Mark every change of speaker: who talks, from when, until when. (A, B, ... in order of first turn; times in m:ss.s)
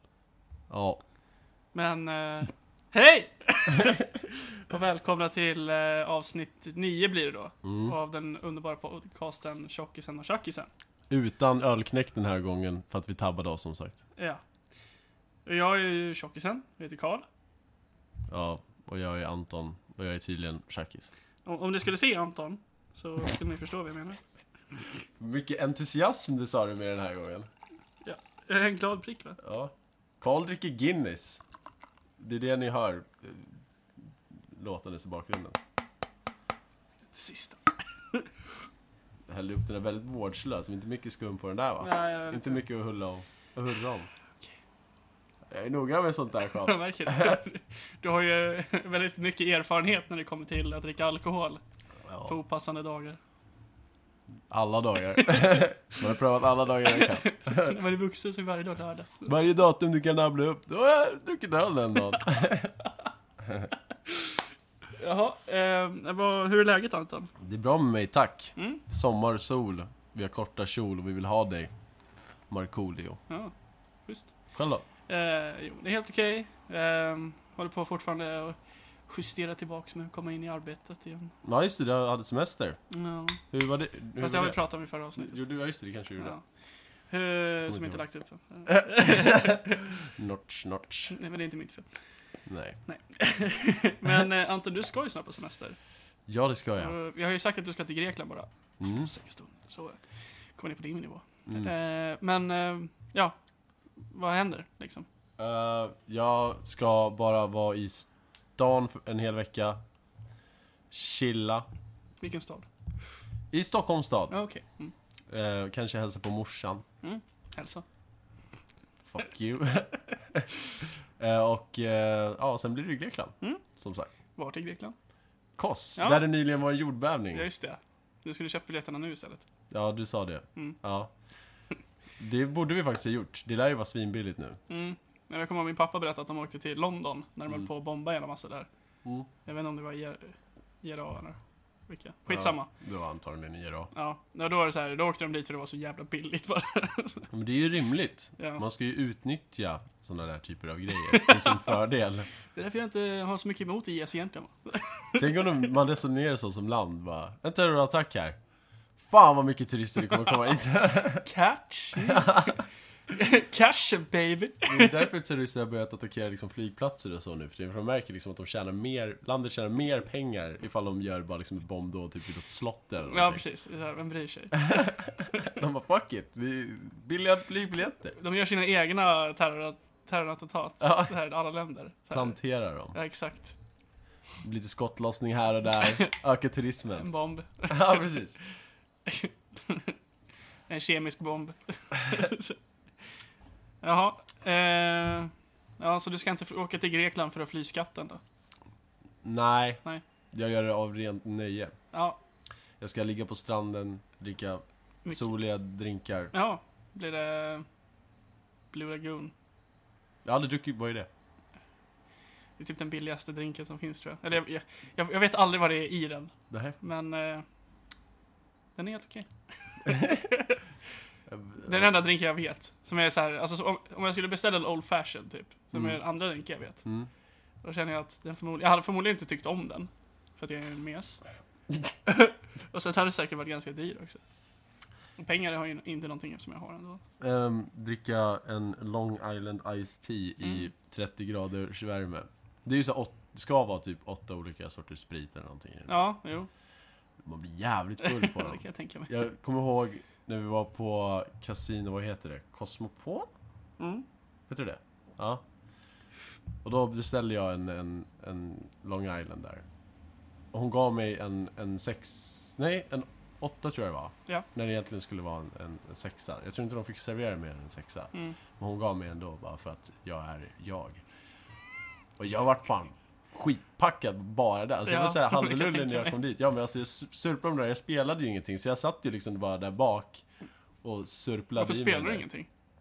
0:00.7-0:01.0 A
0:01.7-0:10.7 B
0:07.6-0:08.0 A
0:11.1-0:14.0 A
0:15.4-0:17.2 B
0:18.3-0:21.1 A
0:21.4-0:24.2 B
0:25.2-0:27.5 A
0:28.0-0:29.4 B
0:29.4-0:31.4 A
0:32.2-0:33.5 A
0:34.5-0:35.6 A
0:37.1-0:38.3 B
0:39.3-0:44.1 A
0:41.8-0:42.6 B
0:45.5-0:47.4 A
0:46.6-0:51.6 B
0:52.0-0:52.3 A
0:52.2-0:53.2 B
0:54.5-0:57.8 A
0:56.9-0:59.3 B
0:59.2-1:02.8 A
1:03.4-1:03.7 A
1:05.0-1:07.3 B
1:07.4-1:11.7 A
1:12.5-1:13.2 A
1:14.1-1:14.3 B
1:14.5-1:14.8 A
1:15.1-1:18.6 B
1:19.1-1:21.3 B
1:21.4-1:22.8 A
1:22.9-1:23.4 B
1:23.5-1:24.6 A
1:24.2-1:25.4 B
1:25.2-1:26.4 A
1:27.1-1:29.9 B
1:27.7-1:28.0 A
1:28.7-1:31.1 A
1:31.1-1:31.9 B
1:32.4-1:32.8 A
1:32.9-1:35.8 B
1:36.3-1:37.0 A
1:36.8-1:40.0 B
1:38.8-1:39.1 A
1:40.6-1:43.3 B
1:41.4-1:41.7 A
1:44.1-1:45.0 B
1:45.4-1:49.8 A
1:50.9-1:51.7 A
1:52.2-1:52.7 B
1:53.5-1:54.3 A
1:54.3-1:54.9 B
1:55.3-1:56.8 A
1:57.0-1:57.8 B
1:59.1-2:04.1 A
2:04.3-2:04.9 B
2:05.6-2:07.5 A
2:06.0-2:06.2 B
2:07.3-2:09.4 B
2:09.7-2:11.1 A
2:12.2-2:14.6 A
2:14.7-2:18.7 B
2:19.4-2:21.4 B
2:21.9-2:22.7 B
2:22.3-2:23.9 A
2:23.9-2:27.3 B
2:27.3-2:32.3 A
2:28.4-2:28.6 B
2:31.1-2:31.7 B
2:32.5-2:35.4 B
2:35.2-2:38.4 A
2:39.0-2:41.3 A
2:41.2-2:45.0 B
2:41.9-2:42.5 A
2:44.6-2:53.4 A
2:53.0-2:54.9 B
2:54.5-2:58.2 A
2:58.2-3:02.4 B
3:00.8-3:01.1 A
3:02.1-3:02.9 A
3:02.9-3:03.5 B
3:04.4-3:07.1 A
3:05.8-3:06.1 B
3:07.0-3:08.1 B
3:07.7-3:08.4 A
3:09.0-3:10.0 B
3:10.7-3:12.6 B
3:13.8-3:18.2 B
3:19.2-3:19.8 A
3:20.3-3:21.7 A
3:21.9-3:22.2 B
3:22.8-3:26.3 A
3:26.3-3:27.6 B
3:28.7-3:29.3 B
3:30.2-3:31.1 A
3:32.6-3:37.4 B
3:36.5-3:36.8 A
3:38.8-3:39.3 B
3:39.8-3:40.6 B
3:39.8-3:40.2 A
3:41.3-3:41.9 A
3:41.6-3:46.8 B
3:45.7-3:46.0 A
3:46.8-3:47.1 A
3:47.6-3:51.2 B
3:52.0-3:54.2 B
3:55.2-3:57.0 B
3:57.2-4:06.0 A
4:05.9-4:06.5 B
4:07.2-4:13.3 A
4:08.0-4:09.1 B
4:13.8-4:14.0 B
4:14.5-4:15.4 A
4:16.6-4:19.6 A
4:20.5-4:31.0 A
4:32.2-4:40.2 A
4:34.8-4:36.2 B
4:40.8-4:42.2 A
4:41.6-4:42.5 B